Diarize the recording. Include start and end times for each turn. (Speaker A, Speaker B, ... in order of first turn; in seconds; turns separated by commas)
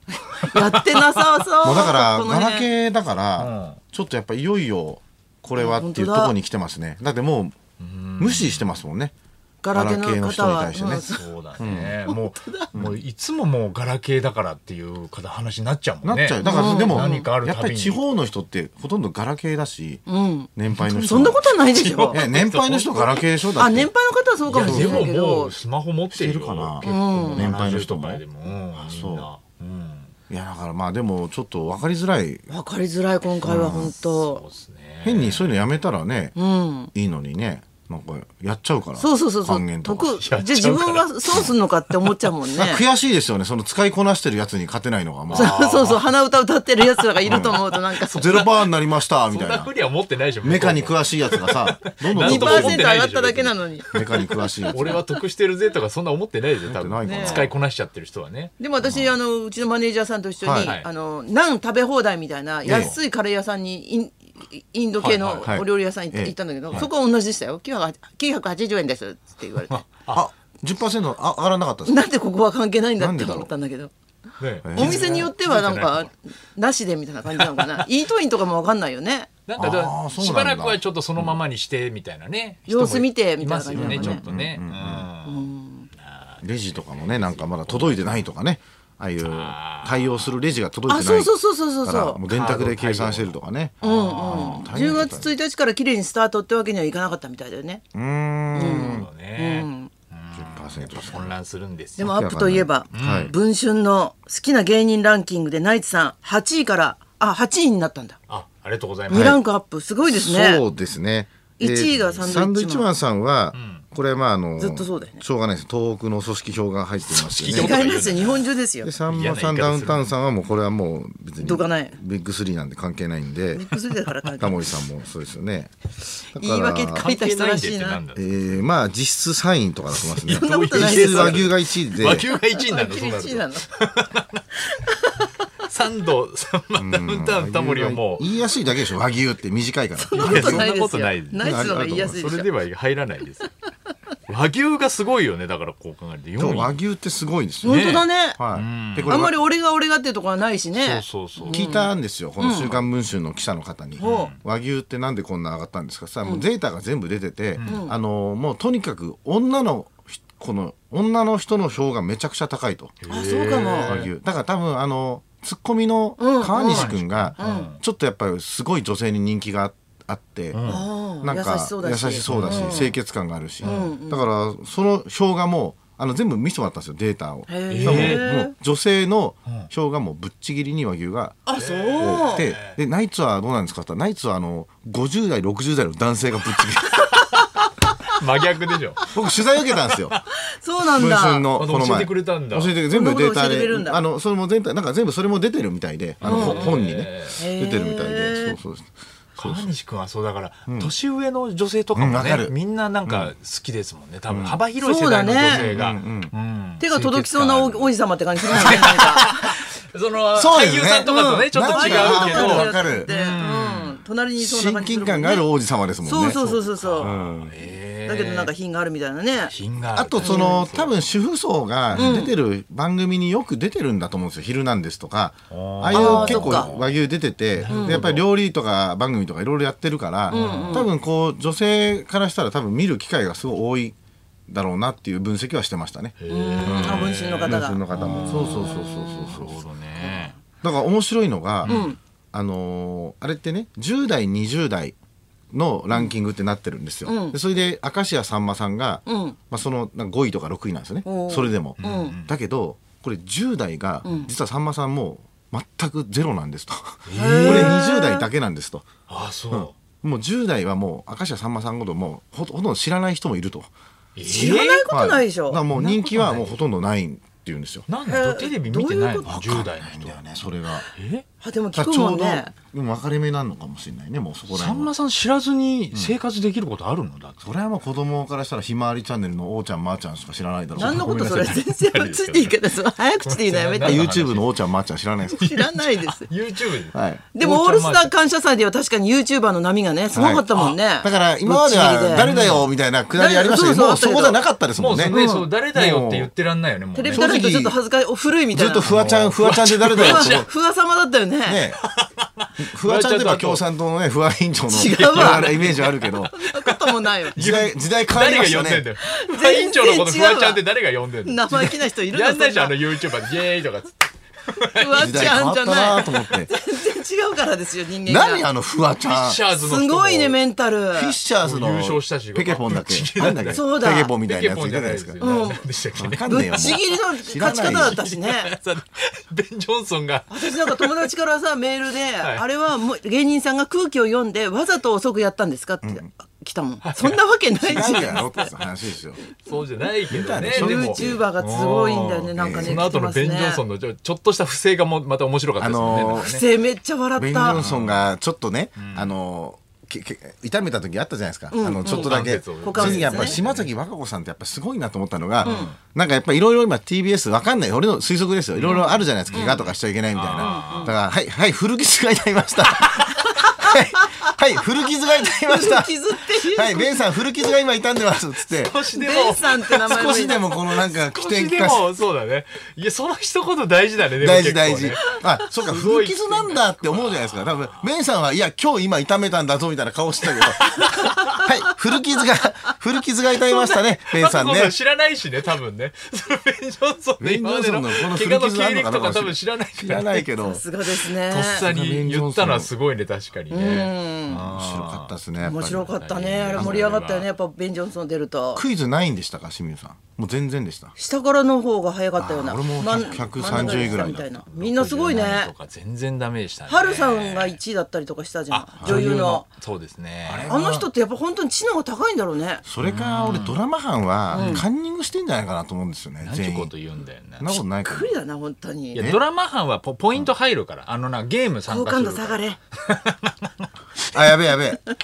Speaker A: 0.2-2.7, Speaker B: 0.4-1.4, Speaker C: 1.6-7.6, Speaker B: 3.4-3.8, Speaker A: 5.6-6.4, Speaker B: 7.8-8.8, Speaker C: 8.2-9.1, Speaker A: 9.6-12.7, Speaker C: 9.7-11.1, Speaker B: 10.8-18.0, Speaker C: 11.6-12.0, Speaker C: 16.0-20.0, Speaker A: 16.4-17.3, Speaker A: 20.1-22.2, Speaker C: 20.6-21.4, Speaker B: 20.7-23.2, Speaker C: 22.1-23.9, Speaker A: 23.6-25.6, Speaker B: 24.5-30.1, Speaker C: 24.5-25.1, Speaker C: 26.1-28.2, Speaker A: 26.8-27.8, Speaker C: 28.8-29.3, Speaker C: 30.3-32.5, Speaker A: 32.5-34.4, Speaker C: 33.4-33.9, Speaker B: 33.5-35.5, Speaker C: 35.0-36.4, Speaker A: 36.4-36.9, Speaker C: 36.9-40.1, Speaker A: 39.0-42.8, Speaker B: 40.1-41.1, Speaker C: 42.6-45.5, Speaker B: 45.3-46.1, Speaker A: 45.3-48.2, Speaker B: 47.0-58.5, Speaker C: 47.3-49.7, Speaker C: 50.4-52.9, Speaker A: 52.1-53.9, Speaker C: 53.9-55.0, Speaker A: 54.7-55.1, Speaker C: 56.7-57.5, Speaker A: 57.0-57.5, Speaker A: 58.6-69.8, Speaker C: 58.8-59.1, Speaker C: 60.4-60.8, Speaker B: 60.6-60.9, Speaker C: 62.6-63.0, Speaker B: 62.7-63.0, Speaker B: 65.0-65.5, Speaker C: 65.4-66.9, Speaker B: 69.7-70.3, Speaker C: 70.1-72.1, Speaker A: 71.9-73.9, Speaker C: 73.0-73.5, Speaker B: 74.4-76.1, Speaker C: 74.7-75.2, Speaker A: 74.8-79.3, Speaker B: 77.3-77.8, Speaker B: 79.5-85.5, Speaker C: 79.6-81.4, Speaker A: 82.7-84.2, Speaker C: 83.8-85.1, Speaker A: 85.2-85.9, Speaker B: 86.0-88.3, Speaker C: 86.4-91.3, Speaker B: 89.2-90.3, Speaker A: 90.9-92.2, Speaker C: 91.8-95.3, Speaker B: 92.3-94.6, Speaker A: 93.8-97.8, Speaker C: 97.9-99.1, Speaker A: 98.5-99.9, Speaker B: 98.7-102.1, Speaker C: 100.3-101.3, Speaker A: 102.0-108.2, Speaker C: 102.0-103.3, Speaker B: 102.9-103.3, Speaker B: 108.3-109.4, Speaker A: 109.1-110.6, Speaker C: 109.1-109.4, Speaker C: 110.0-117.8, Speaker A: 111.6-112.9, Speaker B: 111.9-112.3, Speaker B: 113.5-113.8, Speaker A: 114.6-115.2, Speaker B: 117.1-118.5, Speaker A: 117.5-118.9, Speaker C: 118.8-123.7, Speaker B: 119.1-120.1, Speaker A: 121.4-122.0, Speaker A: 123.5-124.6, Speaker C: 124.4-125.7, Speaker C: 126.3-127.1, Speaker A: 126.3-128.0, Speaker B: 126.9-128.7, Speaker C: 128.2-132.3, Speaker B: 130.0-134.4, Speaker A: 130.3-131.5, Speaker A: 132.4-133.7, Speaker A: 134.6-135.4, Speaker B: 135.6-138.2, Speaker C: 136.8-140.7, Speaker A: 140.0-142.5, Speaker B: 140.2-143.5, Speaker C: 141.4-142.2, Speaker B: 144.3-146.8, Speaker C: 146.4-147.8, Speaker A: 147.6-148.4, Speaker B: 147.6-149.2, Speaker C: 148.4-149.4, Speaker A: 149.1-152.8, Speaker B: 150.8-151.7, Speaker C: 151.5-163.0, Speaker A: 154.0-154.3, Speaker B: 154.0-154.4, Speaker B: 157.6-157.9, Speaker A: 157.6-157.9, Speaker B: 163.0-164.1, Speaker A: 163.1-164.0, Speaker C: 163.6-181.4, Speaker A: 166.2-167.7, Speaker B: 166.5-167.8, Speaker B: 170.5-170.9, Speaker A: 170.7-173.0, Speaker B: 172.2-172.9, Speaker B: 173.6-173.9, Speaker A: 173.6-174.3, Speaker A: 177.5-178.5, Speaker B: 177.7-178.2, Speaker A: 181.5-182.5, Speaker B: 181.6-182.8, Speaker C: 182.0-187.0, Speaker A: 187.0-187.9, Speaker B: 188.1-189.0, Speaker C: 189.1-190.2, Speaker A: 190.6-191.5, Speaker C: 190.8-199.7, Speaker B: 191.6-192.8, Speaker A: 192.9-194.0, Speaker B: 196.2-197.4, Speaker A: 196.2-196.8, Speaker A: 197.4-198.6, Speaker B: 199.4-207.9, Speaker C: 200.7-200.9, Speaker C: 201.9-203.3, Speaker C: 204.3-204.6, Speaker A: 204.8-205.7, Speaker C: 205.4-206.3, Speaker A: 206.8-209.3, Speaker B: 208.5-214.0, Speaker C: 210.3-213.1, Speaker A: 211.1-215.5, Speaker C: 214.4-216.4, Speaker A: 216.0-217.1, Speaker B: 216.2-218.5, Speaker C: 217.0-217.6, Speaker A: 218.0-219.5, Speaker B: 219.5-221.0, Speaker C: 219.9-234.0, Speaker A: 220.2-220.6, Speaker B: 221.9-222.2, Speaker A: 221.9-222.3, Speaker B: 225.5-227.0, Speaker A: 225.9-226.7, Speaker B: 227.6-228.3, Speaker A: 227.7-228.1, Speaker B: 230.3-230.9, Speaker A: 230.3-230.9, Speaker C: 234.5-239.6, Speaker B: 236.2-240.3, Speaker A: 236.3-239.4, Speaker A: 240.0-240.3, Speaker C: 240.6-245.0, Speaker B: 241.6-241.9, Speaker A: 241.7-242.0, Speaker C: 245.5-258.9, Speaker A: 247.1-247.4, Speaker A: 249.1-249.4, Speaker A: 251.1-252.2, Speaker B: 251.8-252.3, Speaker A: 254.0-254.3, Speaker B: 257.1-257.8, Speaker A: 257.1-258.3, Speaker B: 259.1-259.8, Speaker C: 259.5-263.7, Speaker B: 264.2-264.9, Speaker A: 264.2-265.6, Speaker C: 264.9-267.9, Speaker B: 265.7-266.6, Speaker B: 267.9-270.2, Speaker A: 268.1-269.4, Speaker C: 269.3-270.9, Speaker B: 270.9-271.2, Speaker A: 271.4-272.5, Speaker C: 271.7-274.9, Speaker B: 274.5-277.5, Speaker C: 277.4-281.4, Speaker B: 280.8-282.6, Speaker A: 280.8-284.1, Speaker B: 283.2-284.6, Speaker C: 283.8-285.4, Speaker A: 285.3-286.3, Speaker B: 285.3-288.1, Speaker C: 286.9-287.2, Speaker A: 287.4-292.3, Speaker C: 290.1-295.2, Speaker B: 292.1-292.7, Speaker A: 293.1-294.4, Speaker B: 294.8-297.4, Speaker A: 295.1-295.5, Speaker C: 295.7-296.3, Speaker A: 296.9-298.9, Speaker C: 297.1-297.8, Speaker C: 298.5-300.5, Speaker B: 298.9-300.5, Speaker A: 299.9-301.6, Speaker C: 301.4-301.8, Speaker B: 301.8-303.6, Speaker C: 302.6-306.3, Speaker A: 304.7-307.4, Speaker B: 304.8-315.4, Speaker C: 307.4-308.9, Speaker A: 309.0-310.6, Speaker A: 311.2-313.1, Speaker A: 314.7-318.5, Speaker C: 315.0-316.5, Speaker C: 318.1-319.4, Speaker B: 319.0-320.4, Speaker A: 319.6-321.2, Speaker C: 320.9-325.2, Speaker B: 321.4-331.1, Speaker A: 323.5-324.1, Speaker A: 325.2-325.6, Speaker C: 326.0-328.0, Speaker A: 326.3-328.5, Speaker A: 330.3-338.3, Speaker B: 332.2-332.4, Speaker B: 336.8-337.2, Speaker C: 337.6-339.2, Speaker B: 337.8-338.7, Speaker B: 339.4-346.4, Speaker C: 340.1-341.2, Speaker A: 340.5-343.6, Speaker C: 342.4-342.9, Speaker C: 345.6-346.3, Speaker A: 346.1-347.6, Speaker C: 347.2-368.8, Speaker B: 347.5-348.1, Speaker B: 348.8-349.1, Speaker A: 351.5-353.4, Speaker B: 351.8-353.7, Speaker B: 355.4-355.8, Speaker A: 355.4-355.7, Speaker B: 358.6-360.9, Speaker A: 358.7-359.6, Speaker A: 360.4-360.9, Speaker A: 363.3-364.2, Speaker A: 365.5-367.1, Speaker B: 368.5-377.9, Speaker A: 368.9-370.4, Speaker C: 369.9-371.9, Speaker C: 374.2-384.8, Speaker B: 380.2-381.4, Speaker A: 381.0-381.4, Speaker B: 383.4-390.3, Speaker C: 387.2-390.6, Speaker A: 390.4-391.7, Speaker B: 390.8-395.2, Speaker C: 391.6-392.7, Speaker A: 393.5-394.5, Speaker C: 394.5-395.9, Speaker A: 395.4-398.6, Speaker B: 396.0-397.3, Speaker C: 396.6-396.9, Speaker C: 398.5-400.9, Speaker A: 401.0-405.5, Speaker C: 402.2-404.3, Speaker B: 403.3-407.6, Speaker A: 406.7-409.4, Speaker B: 408.5-410.5, Speaker C: 408.8-409.1, Speaker C: 410.3-410.9, Speaker A: 410.5-412.6, Speaker C: 412.6-416.7, Speaker B: 412.8-413.6, Speaker B: 414.3-414.6, Speaker A: 414.3-414.6, Speaker B: 416.2-417.6, Speaker C: 417.4-418.1, Speaker A: 417.8-419.1, Speaker B: 418.9-423.7, Speaker C: 419.0-419.2, Speaker A: 421.7-422.6, Speaker C: 424.1-424.8